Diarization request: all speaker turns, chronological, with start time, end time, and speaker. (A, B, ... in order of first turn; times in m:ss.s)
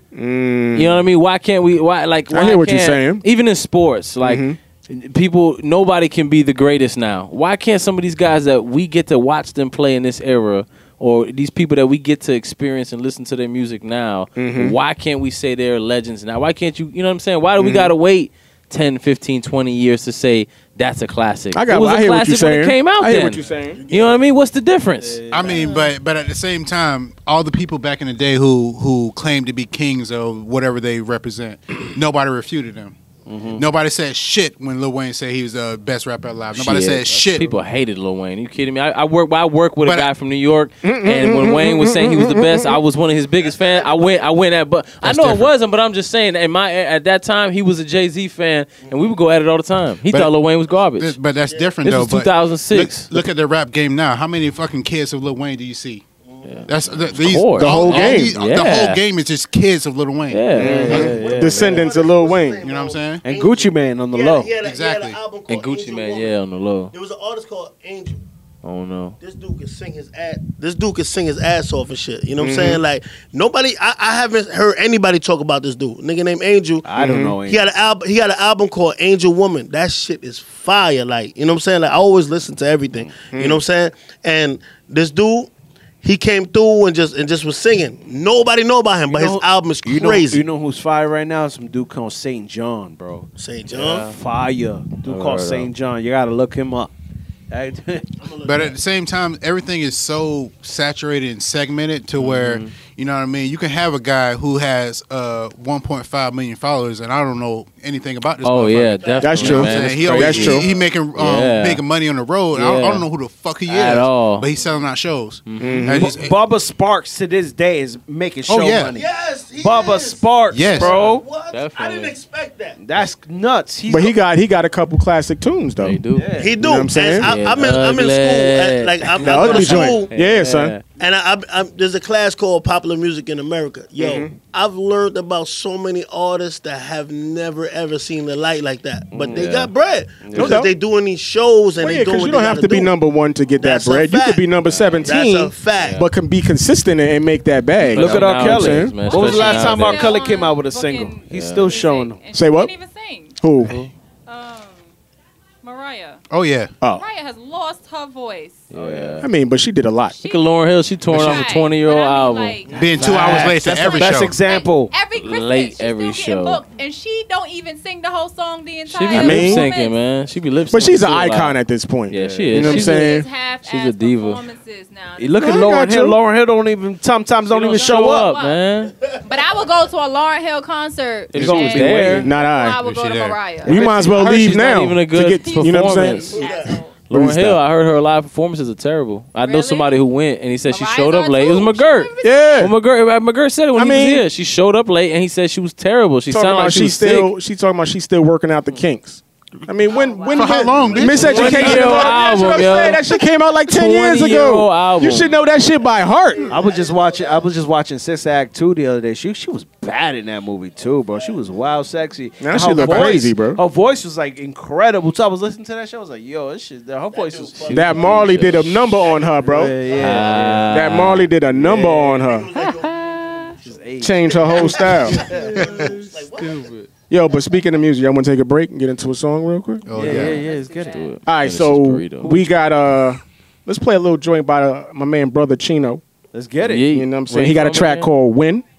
0:00.1-0:01.0 A
0:00.7-0:25.2 B
0:02.3-0:03.2 A
0:04.2-0:04.6 A
0:14.4-0:14.8 A
0:17.6-0:17.9 A
0:21.5-0:23.8 A
0:23.7-0:24.2 C
0:25.0-0:25.7 D
0:25.3-0:33.0 E
0:33.3-0:33.6 D
0:33.5-0:37.5 E
0:36.5-0:51.2 B
0:37.1-0:37.6 D
0:39.8-0:40.1 E
0:40.8-0:42.8 A
0:43.4-0:44.3 C
0:45.0-0:45.5 E
0:48.8-0:49.2 C
0:50.1-0:50.3 E
0:51.0-0:56.0 E
0:51.4-0:51.8 C
0:51.8-0:53.1 B
0:56.2-0:57.2 C
0:56.4-0:59.0 B
0:56.6-1:01.1 E
0:57.5-0:58.4 A
1:00.3-1:01.1 B
1:00.5-1:01.9 D
1:00.5-1:02.6 A
1:00.9-1:06.4 C
1:02.6-1:03.2 E
1:03.2-1:04.5 D
1:04.6-1:05.2 E
1:05.5-1:06.9 B
1:06.9-1:08.2 C
1:08.6-1:09.2 B
1:09.2-1:16.9 C
1:12.4-1:12.8 A
1:16.8-1:17.7 D
1:17.0-1:17.4 A
1:17.4-1:25.5 C
1:23.3-1:23.6 A
1:26.0-1:30.4 C
1:29.1-1:36.9 D
1:33.4-1:34.1 C
1:33.7-1:34.2 B
1:35.0-1:35.7 B
1:37.5-1:38.2 D
1:38.2-1:38.7 C
1:38.4-1:56.4 E
1:42.2-1:42.6 B
1:42.2-1:42.6 D
1:48.4-1:51.8 B
1:49.0-1:50.9 C
1:49.2-1:50.7 A
1:52.5-1:53.0 B
1:53.6-1:54.5 B
1:55.5-1:55.9 B
1:55.6-1:56.1 A
1:55.9-1:59.0 D
1:58.5-1:59.0 E
1:58.9-2:03.1 C
1:59.6-2:01.2 D
2:00.5-2:01.0 E
2:00.8-2:02.2 B
2:02.8-2:04.2 D
2:03.9-2:06.0 A
2:05.8-2:06.3 B
2:06.1-2:06.6 D
2:06.4-2:10.1 C
2:06.6-2:07.3 A
2:07.1-2:10.8 B
2:09.2-2:10.7 A
2:11.0-2:22.9 C
2:14.0-2:14.3 A
2:19.1-2:19.6 D
2:19.3-2:19.7 B
2:20.2-2:20.6 D
2:20.3-2:20.7 A
2:21.8-2:29.0 A
2:23.6-2:24.5 C
2:24.6-2:25.2 B
2:25.0-2:26.0 C
2:25.7-2:26.1 B
2:27.9-2:30.2 B
2:27.9-2:32.2 D
2:29.0-2:33.4 F
2:31.3-2:31.8 B
2:32.3-2:32.7 A
2:33.4-2:33.7 A
2:34.3-2:34.8 F
2:35.6-2:36.2 F
2:36.3-2:36.7 E
2:36.9-2:38.7 F
2:38.7-2:39.3 B
2:38.7-2:39.2 D
2:39.2-2:40.2 A
2:40.2-2:40.5 F
2:40.2-2:42.6 B
2:41.1-2:41.4 E
2:41.1-2:50.0 F
2:42.7-2:44.4 E
2:42.9-2:44.9 D
2:45.2-2:46.6 B
2:48.9-2:51.6 B
2:49.1-2:49.7 A
2:50.7-2:53.3 A
2:52.1-2:54.4 B
2:52.2-2:52.7 D
2:52.5-2:55.8 F
2:55.2-2:58.3 D
2:55.4-2:56.2 A
2:57.5-2:58.9 B
2:57.5-3:03.8 F
2:59.0-2:59.6 C
3:01.3-3:02.3 B
3:01.3-3:02.1 E
3:01.4-3:02.3 D
3:02.2-3:02.8 A
3:02.8-3:03.6 E
3:03.6-3:07.6 A
3:03.7-3:04.5 D
3:03.7-3:06.4 B
3:05.4-3:07.0 F
3:06.3-3:06.8 C
3:07.1-3:17.3 B
3:09.4-3:10.1 F
3:10.7-3:12.7 F
3:12.2-3:12.7 A
3:13.7-3:14.2 A
3:16.3-3:26.5 A
3:19.8-3:21.6 F
3:20.3-3:22.7 E
3:21.1-3:23.1 B
3:23.7-3:25.4 B
3:26.3-3:27.5 C
3:26.5-3:38.7 D
3:31.1-3:31.6 C
3:32.4-3:33.6 A
3:32.8-3:33.2 B
3:37.1-3:40.4 C
3:37.7-3:39.8 A
3:38.0-3:38.5 B
3:39.4-3:42.3 D
3:40.0-3:41.3 B
3:40.7-3:42.5 A
3:42.2-3:46.7 C
3:42.5-3:43.6 F
3:43.6-3:46.0 D
3:44.0-3:45.3 A
3:45.6-3:45.9 E
3:45.6-3:46.9 B
3:47.1-3:49.8 A
3:49.8-3:50.4 E
3:49.9-3:51.0 D
3:50.0-3:51.2 F
3:50.0-3:52.4 B
3:51.3-3:56.0 A
3:56.3-3:56.9 D
3:56.6-3:58.1 B
3:56.9-3:58.6 A